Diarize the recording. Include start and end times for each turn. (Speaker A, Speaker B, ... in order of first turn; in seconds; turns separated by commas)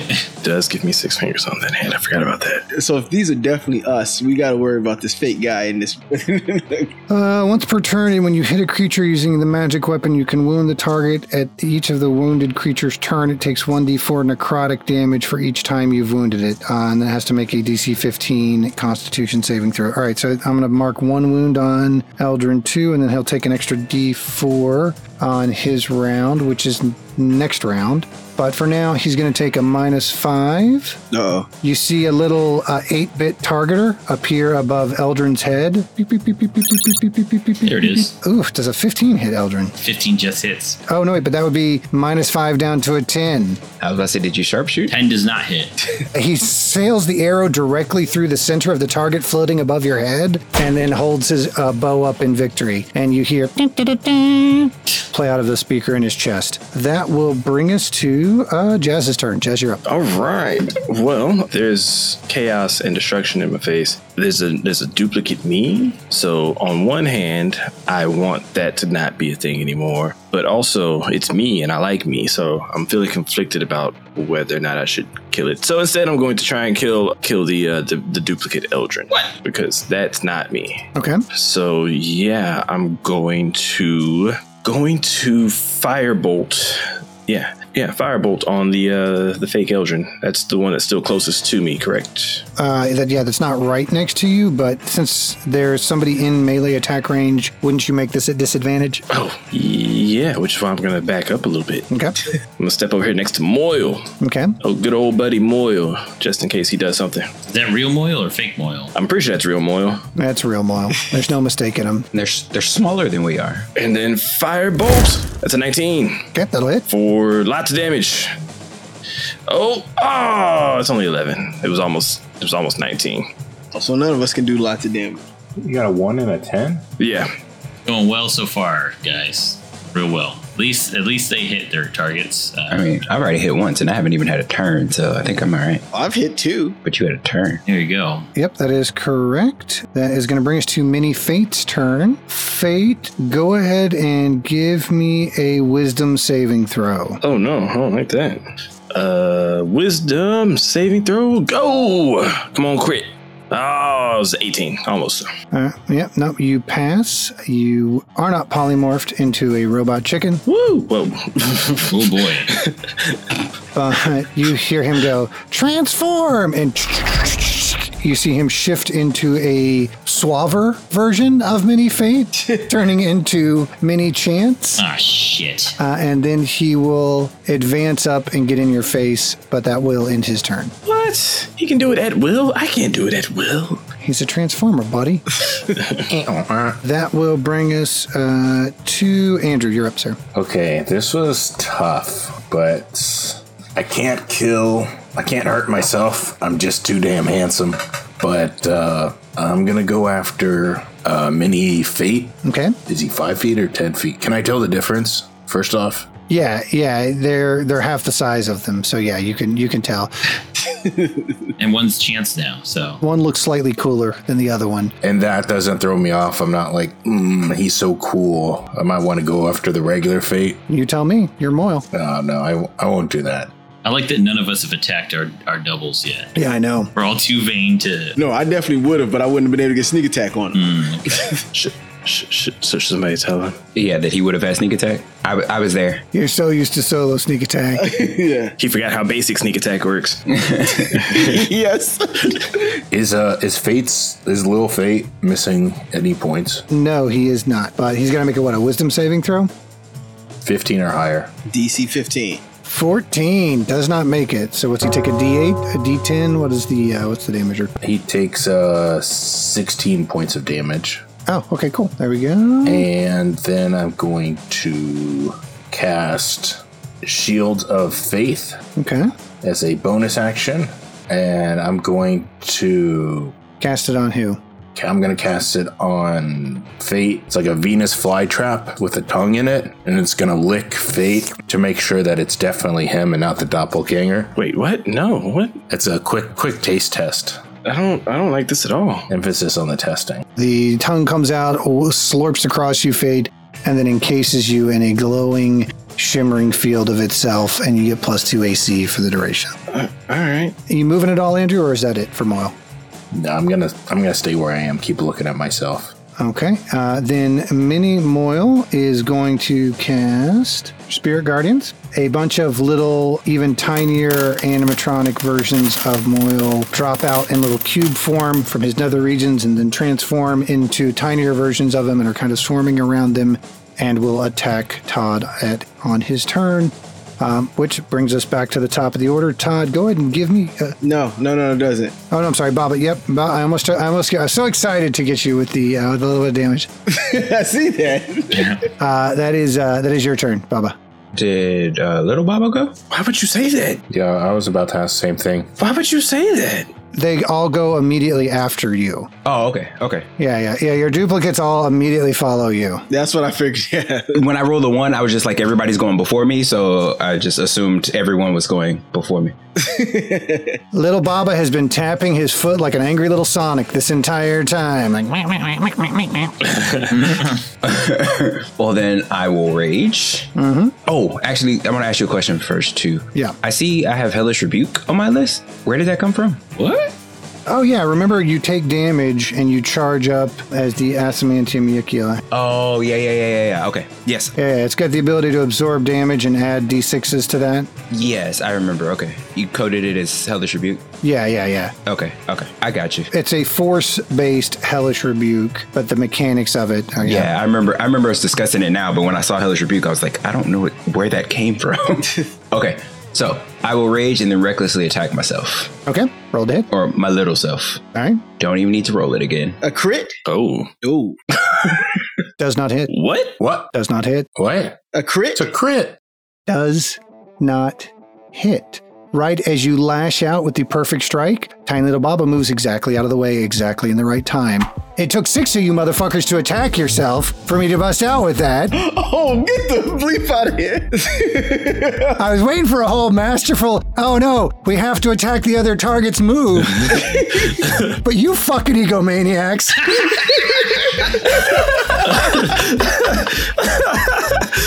Speaker A: 0.4-2.6, Speaker B: 2.7-6.9, Speaker C: 7.1-31.0, Speaker B: 31.1-31.5, Speaker C: 31.6-39.7, Speaker D: 37.6-38.1, Speaker D: 39.8-40.8, Speaker C: 40.9-43.6, Speaker E: 43.8-45.0, Speaker D: 44.9-45.8, Speaker C: 46.1-59.8, Speaker A: 59.9-92.4, Speaker C: 80.9-81.2, Speaker C: 92.5-99.0, Speaker A: 99.1-101.9, Speaker C: 101.9-102.2, Speaker A: 102.6-104.1, Speaker C: 104.2-104.5, Speaker A: 104.6-107.3, Speaker D: 107.5-108.9, Speaker A: 108.9-110.0, Speaker C: 110.2-112.1, Speaker E: 112.1-113.7, Speaker A: 113.7-116.3, Speaker C: 116.3-116.8, Speaker A: 116.9-118.3, Speaker A: 119.5-123.3, Speaker B: 123.7-125.2, Speaker F: 125.6-126.8, Speaker A: 127.0-127.3, Speaker D: 127.8-132.9, Speaker E: 132.7-135.8, Speaker B: 135.9-136.8, Speaker E: 136.8-137.6, Speaker D: 137.7-138.3, Speaker C: 138.3-147.2, Speaker A: 147.2-155.3, Speaker C: 155.5-160.4, Speaker A: 160.4-162.8, Speaker D: 161.8-162.5, Speaker C: 163.7-174.8, Speaker D: 174.8-175.8, Speaker C: 175.8-180.7, Speaker A: 180.8-183.8, Speaker C: 184.0-185.2, Speaker F: 186.1-186.8, Speaker C: 186.8-190.2, Speaker F: 190.3-206.1, Speaker C: 202.4-202.8, Speaker C: 206.3-210.1, Speaker B: 210.6-211.3, Speaker D: 211.6-213.0, Speaker C: 213.0-214.9, Speaker F: 215.0-220.6, Speaker C: 220.7-221.9, Speaker F: 221.9-223.5, Speaker D: 223.8-226.3, Speaker C: 226.3-226.9, Speaker D: 226.9-228.1, Speaker B: 228.2-231.2, Speaker D: 230.5-231.3, Speaker A: 231.5-233.6, Speaker E: 233.7-236.0, Speaker C: 236.1-237.9, Speaker B: 237.8-238.5, Speaker A: 238.6-241.2, Speaker E: 240.4-240.8, Speaker B: 240.9-242.8, Speaker F: 242.9-246.7, Speaker C: 246.7-249.5, Speaker F: 250.4-251.3, Speaker B: 251.5-252.4, Speaker C: 252.6-257.7, Speaker F: 257.8-261.0, Speaker C: 261.3-262.9, Speaker F: 262.6-268.6, Speaker C: 268.8-269.1, Speaker F: 269.4-273.4, Speaker C: 273.6-274.4, Speaker F: 274.7-284.3, Speaker A: 284.4-285.6, Speaker F: 285.7-287.4, Speaker A: 287.6-289.1, Speaker F: 289.1-290.2, Speaker C: 290.4-299.6, Speaker A: 299.7-300.6, Speaker C: 300.7-302.6, Speaker F: 303.1-305.9, Speaker C: 306.2-330.8, Speaker B: 330.8-331.9, Speaker C: 332.1-336.7, Speaker B: 336.9-338.6, Speaker D: 338.3-338.6, Speaker C: 338.8-340.7, Speaker E: 341.1-342.8, Speaker A: 342.9-343.8, Speaker F: 343.9-345.5, Speaker A: 345.6-346.7, Speaker C: 346.9-349.1, Speaker E: 349.2-350.1, Speaker C: 350.2-352.8, Speaker B: 352.9-354.2, Speaker E: 354.1-359.3, Speaker B: 359.6-360.6, Speaker C: 360.7-366.4, Speaker D: 366.9-367.4, Speaker E: 367.6-370.3, Speaker C: 370.3-370.7, Speaker E: 370.9-376.5, Speaker D: 376.6-376.9, Speaker C: 377.5-382.2, Speaker E: 382.3-384.3, Speaker C: 384.4-387.7, Speaker E: 387.9-390.8, Speaker C: 391.0-391.7, Speaker E: 391.9-393.1, Speaker C: 393.1-397.3, Speaker E: 397.0-405.7, Speaker C: 405.9-406.7, Speaker E: 406.7-407.8, Speaker C: 407.9-408.2, Speaker E: 408.4-409.6, Speaker B: 409.6-410.2, Speaker A: 410.2-410.7, Speaker B: 410.8-411.8, Speaker C: 412.4-412.9, Speaker A: 412.9-413.4, Speaker F: 413.4-413.7, Speaker C: 413.7-414.3, Speaker F: 414.4-414.8, Speaker B: 414.9-415.4, Speaker F: 415.3-416.0, Speaker C: 416.5-428.8, Speaker B: 428.7-432.2, Speaker C: 432.1-440.4, Speaker B: 436.9-437.5, Speaker A: 443.6-444.4